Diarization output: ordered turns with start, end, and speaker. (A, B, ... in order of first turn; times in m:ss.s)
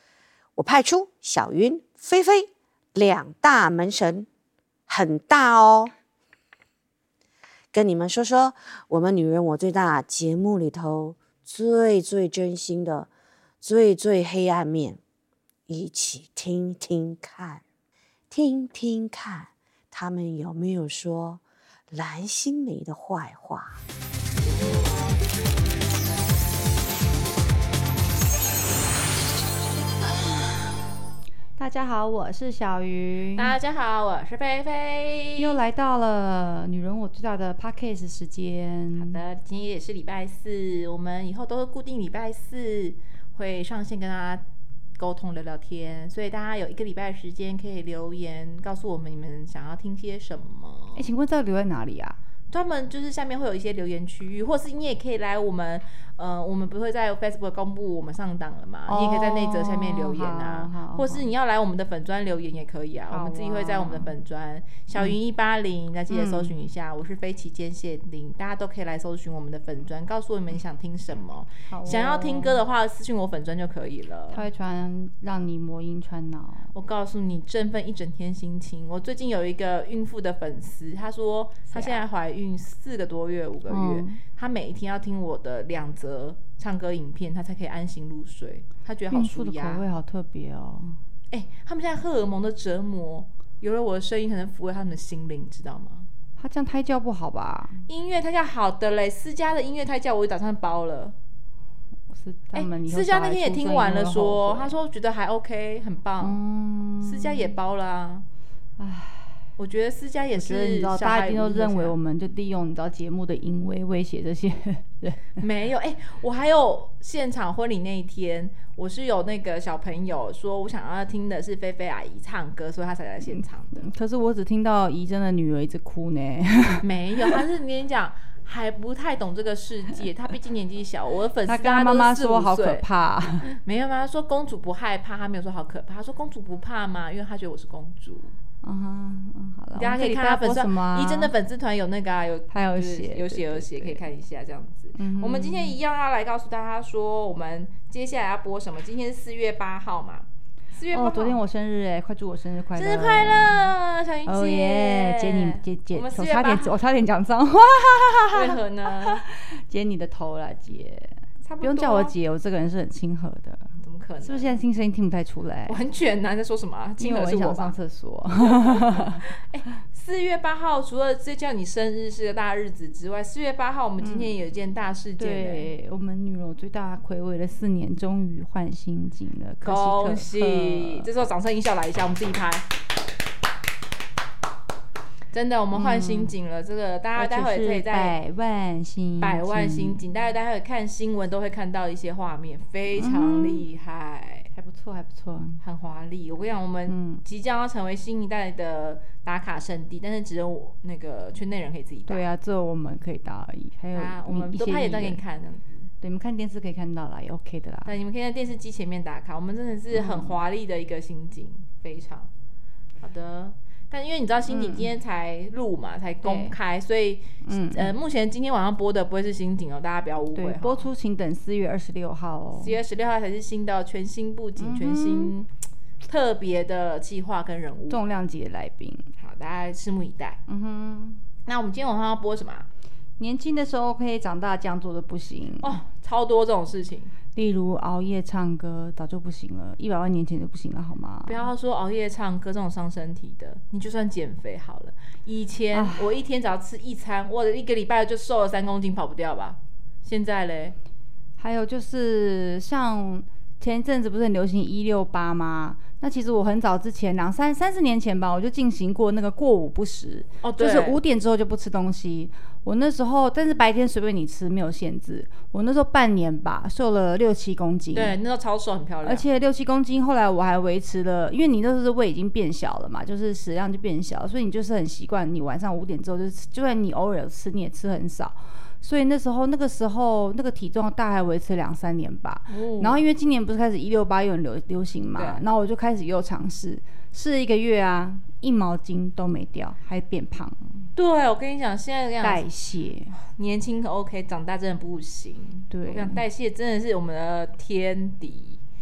0:00.6-0:04.3 A
0:04.9-0:05.9 A
0:07.7-0:13.1 A
0:13.6-0:15.0 A
0:15.7-0:17.6 A
0:18.3-0:23.8 A
0:31.6-0:33.5 B
0:33.4-0:35.6 C
0:35.4-0:39.2 B
0:38.9-0:44.4 C
0:45.0-0:51.0 C
0:51.0-0:52.2 B
0:52.5-1:14.4 C
0:58.9-1:01.3 B
1:03.1-1:04.1 B
1:06.1-1:06.5 B
1:11.7-1:12.6 B
1:14.3-1:16.7 B
1:16.7-1:29.8 C
1:21.7-1:22.0 B
1:23.7-1:24.2 B
1:29.1-1:31.0 B
1:31.3-1:36.1 C
1:36.4-1:37.8 B
1:37.9-1:41.1 C
1:42.1-1:44.7 B
1:42.5-1:46.4 C
1:46.2-1:47.5 B
1:47.0-1:48.2 C
1:48.8-1:49.4 B
1:49.6-1:52.0 C
1:50.3-1:55.4 B
1:55.4-2:03.9 C
2:03.3-2:07.4 B
2:06.8-2:12.8 C
2:11.4-2:13.5 B
2:13.4-2:18.4 C
2:18.6-2:21.3 B
2:19.8-2:31.4 C
2:22.5-2:24.0 B
2:24.9-2:25.8 B
2:30.9-2:33.7 B
2:32.7-2:36.8 C
2:34.2-2:45.8 B
2:38.3-2:39.2 C
2:41.4-2:42.1 C
2:43.8-2:44.6 C
2:45.7-2:47.8 C
2:47.0-2:49.2 B
2:48.4-2:55.7 C
2:54.0-2:54.3 B
2:55.2-3:01.1 B
2:59.6-3:02.7 C
3:05.3-3:08.2 C
3:05.7-3:06.3 B
3:07.2-3:10.0 B
3:09.2-3:14.5 C
3:12.9-3:13.7 B
3:14.5-3:15.6 B
3:15.6-3:22.2 C
3:16.9-3:17.2 B
3:22.1-3:25.2 B
3:23.9-3:25.9 C
3:26.0-3:27.9 B
3:27.8-3:32.3 C
3:29.9-3:30.4 B
3:33.0-3:40.9 C
3:34.5-3:34.9 B
3:36.2-3:36.6 B
3:37.4-3:38.0 B
3:40.3-3:42.8 B
3:42.6-3:45.5 C
3:44.6-3:45.3 B
3:46.0-3:48.0 C
3:47.9-3:49.1 B
3:49.2-3:50.4 C
3:50.5-3:51.2 B
3:51.4-3:52.7 C
3:53.2-3:55.8 B
3:55.6-3:57.1 C
3:57.3-4:01.5 B
4:01.3-4:10.8 C
4:05.7-4:06.1 B
4:11.4-4:28.2 B
4:20.4-4:21.0 C
4:27.9-4:29.2 C
4:29.0-4:50.9 B
4:42.5-4:43.0 C
4:45.2-4:45.4 C
4:51.0-4:52.4 C
4:52.2-4:53.1 B
4:53.1-4:58.6 C
4:55.7-4:56.2 B